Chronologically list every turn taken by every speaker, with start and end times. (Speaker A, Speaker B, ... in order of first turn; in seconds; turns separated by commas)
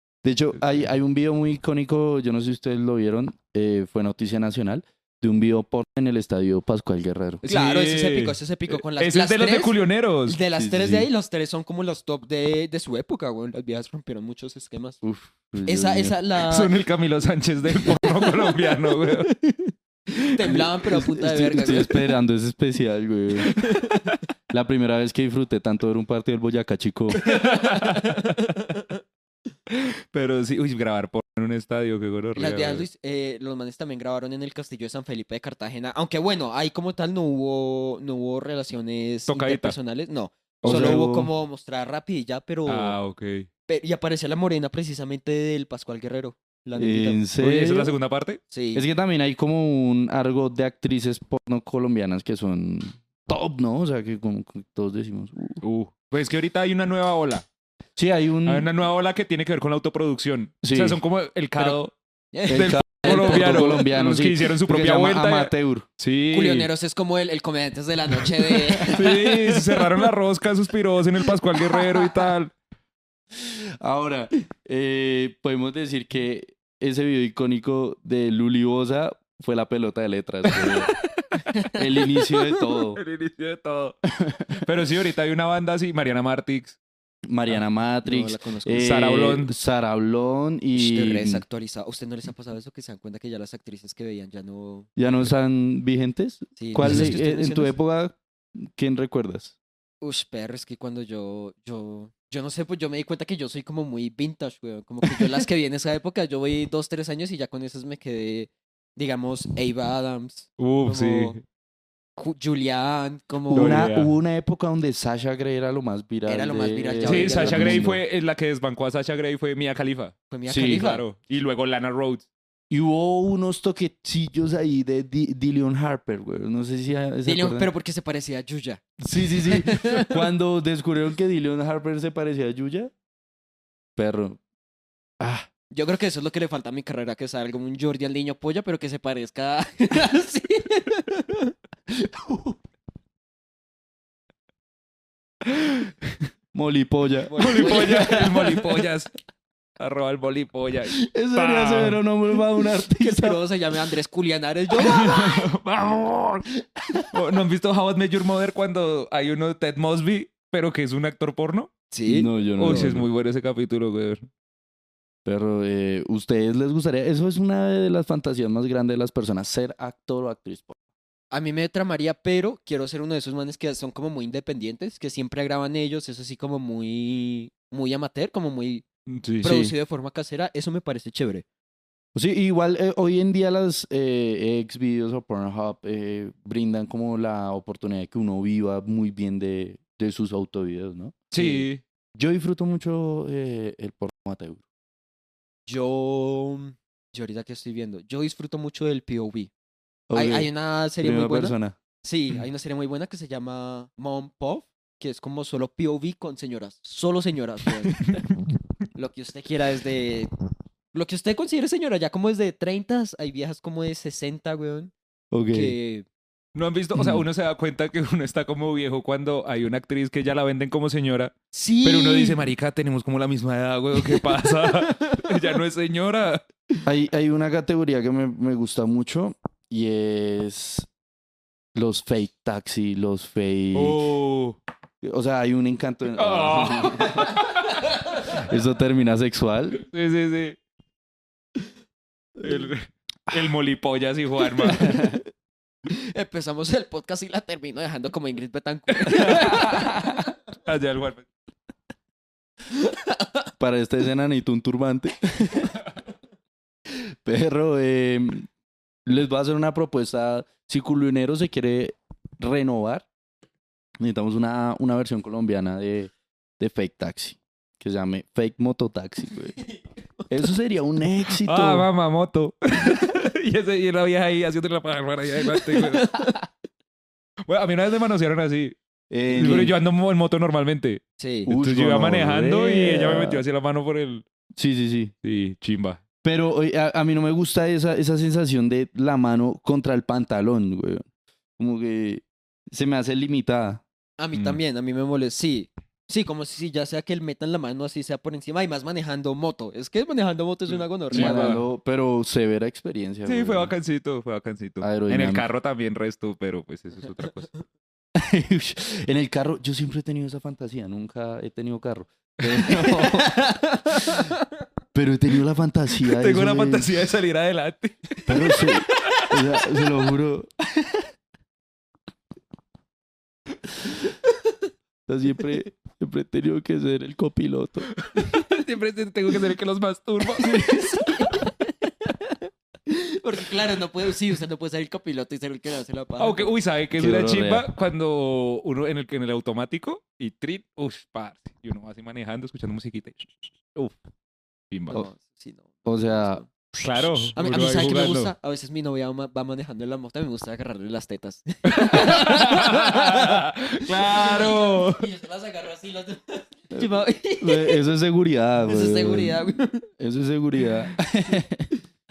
Speaker A: 0.2-7.4, Speaker B: 7.4-10.4, Speaker C: 7.4-15.0, Speaker A: 10.6-11.1, Speaker A: 15.0-16.1, Speaker C: 15.6-16.7, Speaker B: 16.5-19.3, Speaker C: 17.7-22.0, Speaker A: 20.4-23.5, Speaker B: 23.6-24.1, Speaker C: 23.6-24.0, Speaker A: 24.5-27.2, Speaker B: 27.2-28.4, Speaker C: 27.2-28.9, Speaker B: 29.7-32.9, Speaker C: 32.4-43.0, Speaker B: 39.3-39.8, Speaker B: 40.6-41.0, Speaker A: 40.6-41.3, Speaker B: 42.7-43.5, Speaker C: 43.7-47.2, Speaker A: 46.8-47.9, Speaker B: 47.4-48.4, Speaker C: 48.5-48.8, Speaker A: 48.7-55.6, Speaker B: 55.6-57.5, Speaker A: 58.0-58.7, Speaker B: 58.4-61.9, Speaker A: 60.6-61.0, Speaker C: 62.3-63.7, Speaker A: 62.5-65.8, Speaker B: 62.5-66.7, Speaker C: 66.3-69.9, Speaker B: 68.8-72.5, Speaker C: 71.7-72.1, Speaker A: 73.3-80.9, Speaker B: 80.5-81.4, Speaker C: 81.5-81.8, Speaker A: 81.7-83.0, Speaker B: 82.9-84.0, Speaker A: 84.2-84.6, Speaker B: 84.5-86.8, Speaker A: 87.2-91.4, Speaker C: 88.0-88.9, Speaker B: 88.8-89.5, Speaker C: 90.7-94.9, Speaker A: 95.0-99.5, Speaker C: 96.6-97.7, Speaker B: 96.8-97.1, Speaker C: 100.0-111.4, Speaker B: 110.6-111.4, Speaker C: 112.2-113.9, Speaker A: 113.5-118.0, Speaker B: 113.5-114.1, Speaker C: 116.2-117.9, Speaker B: 117.0-122.3, Speaker C: 120.3-121.0, Speaker A: 120.5-120.9, Speaker A: 122.7-127.7, Speaker C: 127.2-130.2, Speaker A: 129.0-132.9, Speaker A: 133.9-134.4, Speaker A: 135.2-135.5, Speaker C: 135.7-141.5, Speaker A: 142.0-142.6, Speaker B: 145.5-145.9, Speaker A: 146.5-148.1, Speaker C: 147.3-148.6, Speaker B: 147.4-149.1, Speaker B: 149.8-152.0, Speaker A: 150.9-153.4, Speaker C: 152.9-155.4, Speaker B: 154.8-156.5, Speaker A: 156.8-157.1, Speaker B: 157.1-161.7, Speaker C: 161.9-162.9, Speaker A: 162.1-163.1, Speaker B: 162.6-164.3, Speaker A: 165.2-170.8, Speaker C: 171.3-178.8, Speaker B: 179.1-179.5, Speaker C: 179.4-181.4, Speaker A: 179.4-179.7, Speaker A: 182.1-194.6, Speaker B: 191.3-191.8, Speaker C: 195.7-199.5, Speaker A: 200.1-200.5, Speaker C: 200.1-208.0, Speaker A: 201.0-201.8, Speaker C: 208.9-210.3, Speaker C: 210.9-214.9, Speaker A: 215.3-215.7, Speaker C: 215.5-216.1, Speaker B: 216.5-226.4, Speaker A: 216.9-217.2, Speaker C: 221.5-222.4, Speaker C: 224.0-225.3, Speaker A: 226.8-230.9, Speaker A: 231.7-234.0, Speaker B: 233.7-234.6, Speaker A: 235.0-237.4, Speaker B: 236.2-238.3, Speaker A: 238.3-239.8, Speaker B: 239.8-240.6, Speaker B: 242.4-245.1, Speaker A: 244.8-245.2, Speaker C: 245.9-250.3, Speaker B: 249.0-251.2, Speaker C: 252.7-253.2, Speaker A: 253.6-255.8, Speaker A: 256.9-258.5, Speaker A: 259.1-263.1, Speaker A: 264.0-269.6, Speaker A: 270.3-271.9, Speaker B: 271.4-276.3, Speaker C: 275.7-276.4, Speaker B: 277.5-278.8, Speaker A: 279.1-279.7, Speaker B: 279.3-284.2, Speaker C: 281.2-281.5, Speaker A: 281.5-283.4, Speaker A: 284.6-285.1, Speaker B: 285.2-286.0, Speaker A: 286.2-291.0, Speaker A: 291.6-293.8, Speaker C: 294.2-301.6, Speaker B: 294.3-294.6, Speaker B: 301.1-301.6, Speaker A: 301.1-303.7, Speaker B: 303.2-307.5, Speaker A: 304.8-305.4, Speaker A: 308.1-313.4, Speaker C: 313.2-314.2, Speaker A: 314.9-317.1, Speaker B: 316.0-319.4, Speaker A: 318.3-321.1, Speaker A: 325.1-327.9, Speaker B: 328.0-331.4, Speaker C: 330.4-336.5, Speaker B: 336.2-343.9, Speaker A: 337.0-337.7, Speaker B: 344.7-345.0, Speaker C: 344.9-346.5, Speaker A: 345.8-346.4, Speaker B: 346.7-348.3, Speaker C: 347.3-357.8, Speaker B: 351.6-355.0, Speaker A: 356.7-361.7, Speaker C: 358.6-359.9